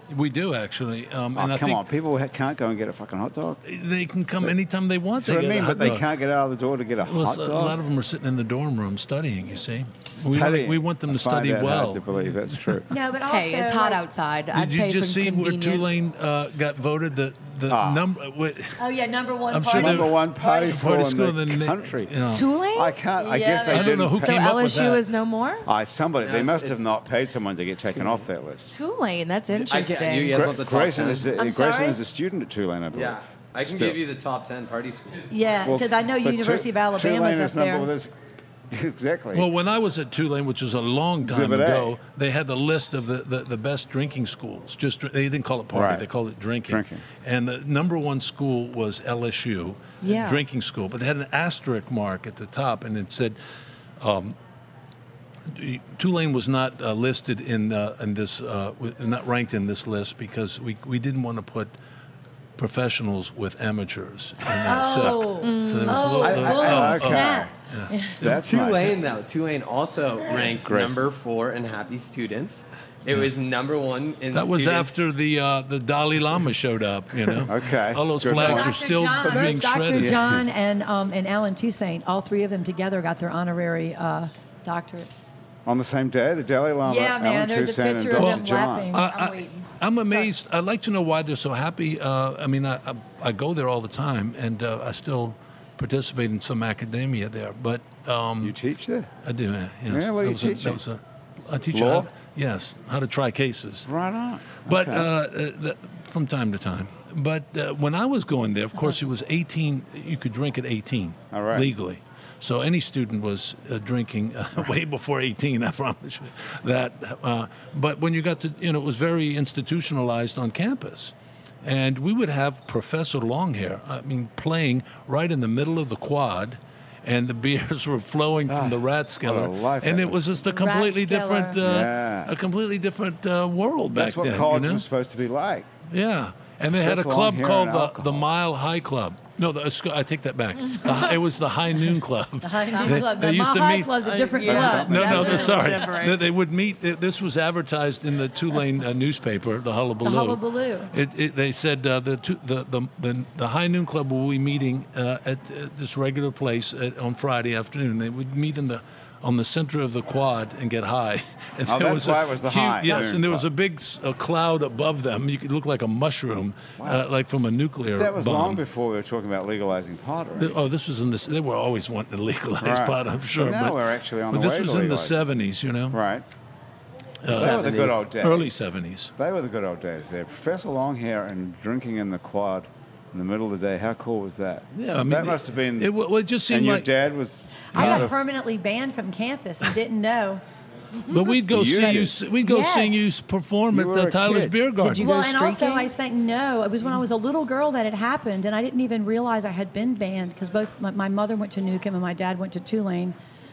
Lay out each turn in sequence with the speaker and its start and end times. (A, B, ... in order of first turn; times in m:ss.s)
0:00.1-0:01.8 A
0:01.4-0:03.6 B
0:03.6-0:06.0 A
0:05.2-0:07.8 B
0:07.0-0:12.8 A
0:10.2-0:12.9 B
0:12.9-0:14.0 C
0:13.2-0:15.9 D
0:14.5-0:18.8 A
0:17.7-0:18.0 B
0:18.8-0:20.8 C
0:19.5-0:22.5 A
0:19.8-0:22.1 B
0:22.3-0:23.0 D
0:22.7-0:24.5 B
0:23.2-0:23.9 C
0:23.7-0:25.0 A
0:24.2-0:25.7 D
0:25.7-0:28.7 B
0:26.2-0:26.8 E
0:28.7-0:30.4 D
0:29.6-0:31.3 E
0:30.3-0:34.0 B
0:31.4-0:32.0 C
0:32.9-0:35.3 E
0:35.3-0:37.9 C
0:35.6-0:38.1 B
0:38.7-0:39.5 B
0:39.3-0:53.4 A
0:41.2-0:42.0 B
0:45.7-0:46.1 B
0:46.7-0:47.0 B
0:50.0-0:50.4 D
0:54.0-0:54.4 A
0:55.5-1:01.7 A
1:02.6-1:08.4 A
1:04.6-1:08.2 C
1:05.4-1:06.3 D
1:06.2-1:07.0 E
1:06.5-1:07.5 B
1:08.2-1:09.0 B
1:08.2-1:15.0 E
1:10.4-1:11.0 B
1:14.3-1:20.4 A
1:17.4-1:20.4 B
1:18.4-1:25.1 C
1:25.7-1:28.9 B
1:26.8-1:29.2 C
1:28.2-1:38.6 A
1:29.0-1:29.5 D
1:38.4-1:39.1 B
1:39.2-1:43.9 A
1:39.9-1:40.8 B
1:41.7-1:42.1 B
1:43.9-1:45.1 B
1:44.6-2:14.8 A
1:51.3-1:51.7 B
2:08.5-2:10.4 B
2:10.5-2:11.6 C
2:11.6-2:12.3 B
2:13.9-2:15.7 B
2:15.9-2:48.6 A
2:16.7-2:18.3 B
2:20.8-2:21.1 D
2:22.4-2:25.8 C
2:24.0-2:26.2 D
2:24.4-2:25.3 B
2:30.0-2:30.9 C
2:41.7-2:43.4 B
2:46.8-2:47.0 B
2:47.9-2:50.6 B
2:50.4-2:56.0 A
2:52.6-2:55.2 B
2:55.9-2:56.2 B
2:57.2-2:59.1 A
2:57.3-3:05.9 B
2:57.3-2:57.9 E
3:04.7-3:06.9 A
3:06.5-3:08.1 B
3:07.7-3:10.4 C
3:07.7-3:08.1 A
3:11.1-3:15.1 A
3:11.5-3:12.2 B
3:12.4-3:13.1 C
3:13.7-3:14.6 B
3:14.8-3:15.9 D
3:15.0-3:23.2 C